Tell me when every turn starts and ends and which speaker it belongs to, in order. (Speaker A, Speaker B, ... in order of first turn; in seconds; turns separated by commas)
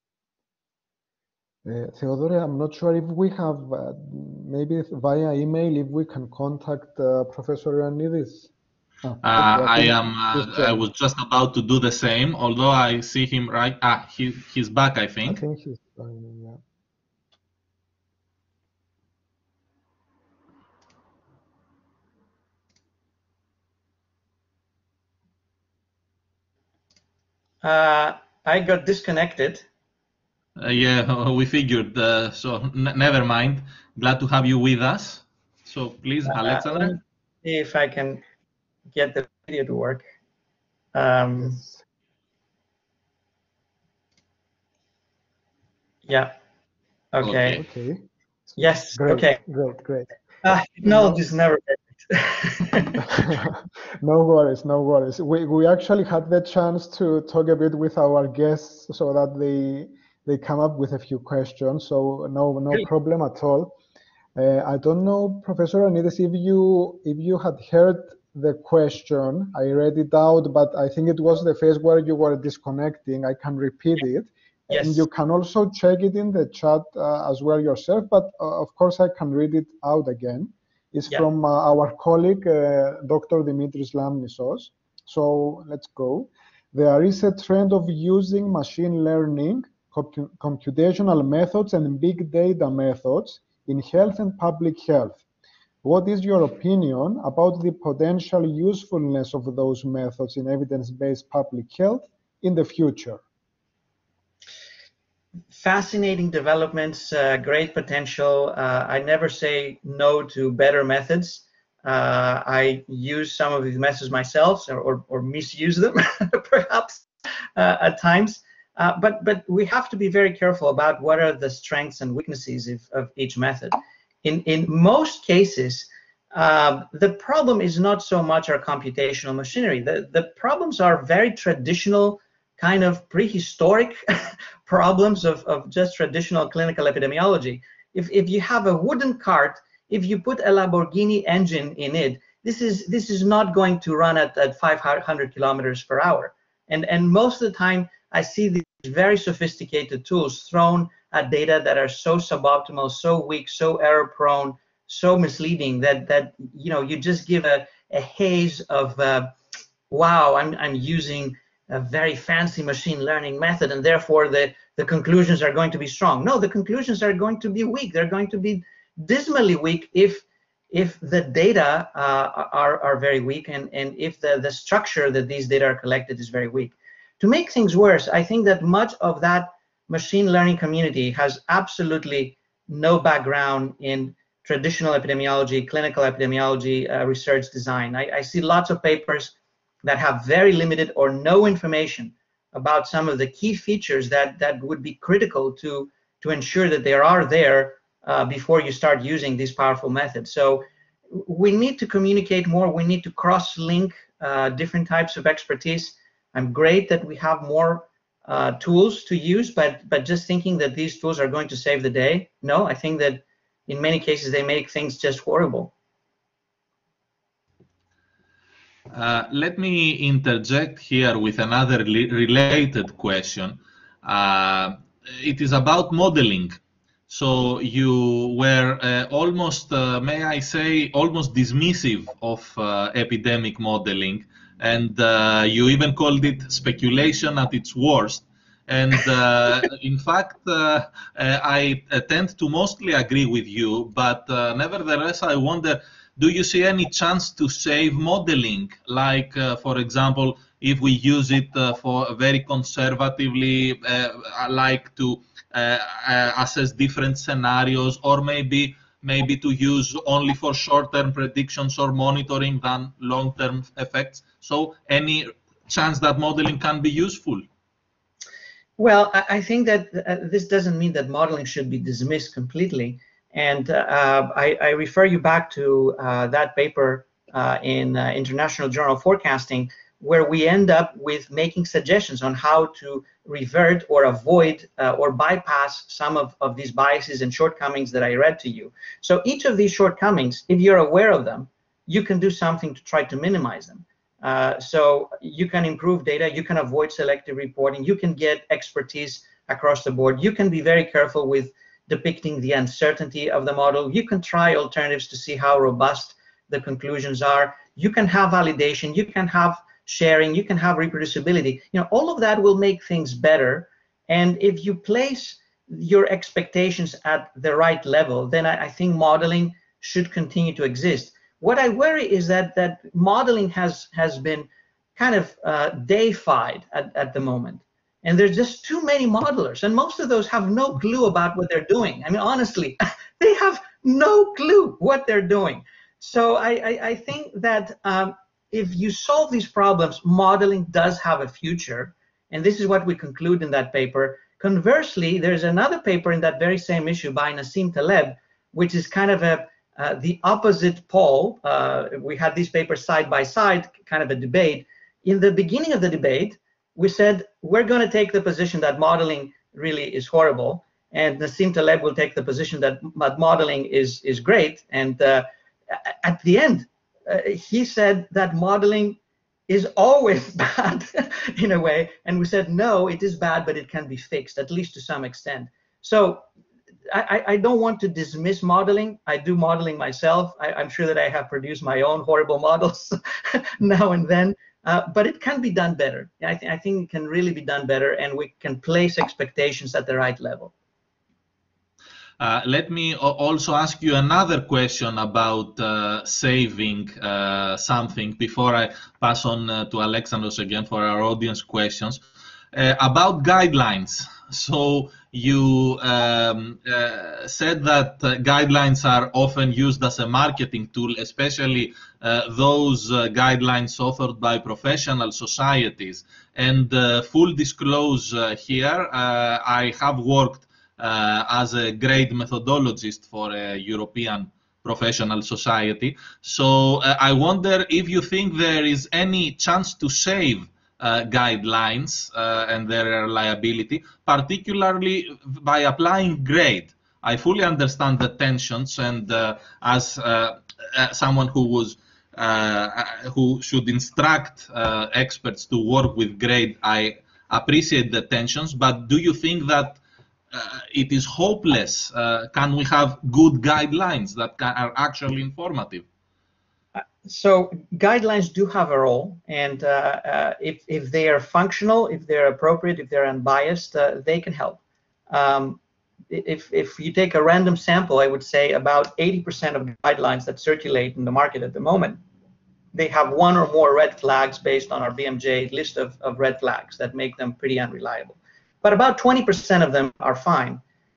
Speaker A: 1.6-8.5, Speaker A: 9.0-10.8, Speaker B: 9.2-15.4, Speaker A: 15.2-16.6, Speaker C: 27.6-29.6, Speaker B: 30.6-37.0, Speaker C: 36.2-38.2, Speaker C: 38.9-40.0, Speaker C: 40.9-41.6, Speaker A: 41.4-41.8, Speaker C: 46.0-46.3, Speaker C: 47.1-47.6, Speaker B: 47.2-47.6, Speaker A: 47.6-50.2, Speaker C: 48.6-49.4, Speaker C: 50.4-53.0, Speaker A: 50.8-51.2, Speaker A: 53.0-63.7, Speaker A: 64.3-95.2, Speaker C: 74.7-75.0, Speaker A: 95.8-103.2, Speaker C: 105.5-134.0, Speaker C: 134.7-159.3, Speaker C: 159.9-215.7, Speaker B: 218.9-226.6, Speaker B: 227.1-267.4, Speaker C: 268.8-376.2, Speaker C: 376.9-390.5, Speaker B: 392.2-449.8, Speaker B: 450.3-455.8, Speaker C: 456.8-472.0, Speaker C: 472.7-480.6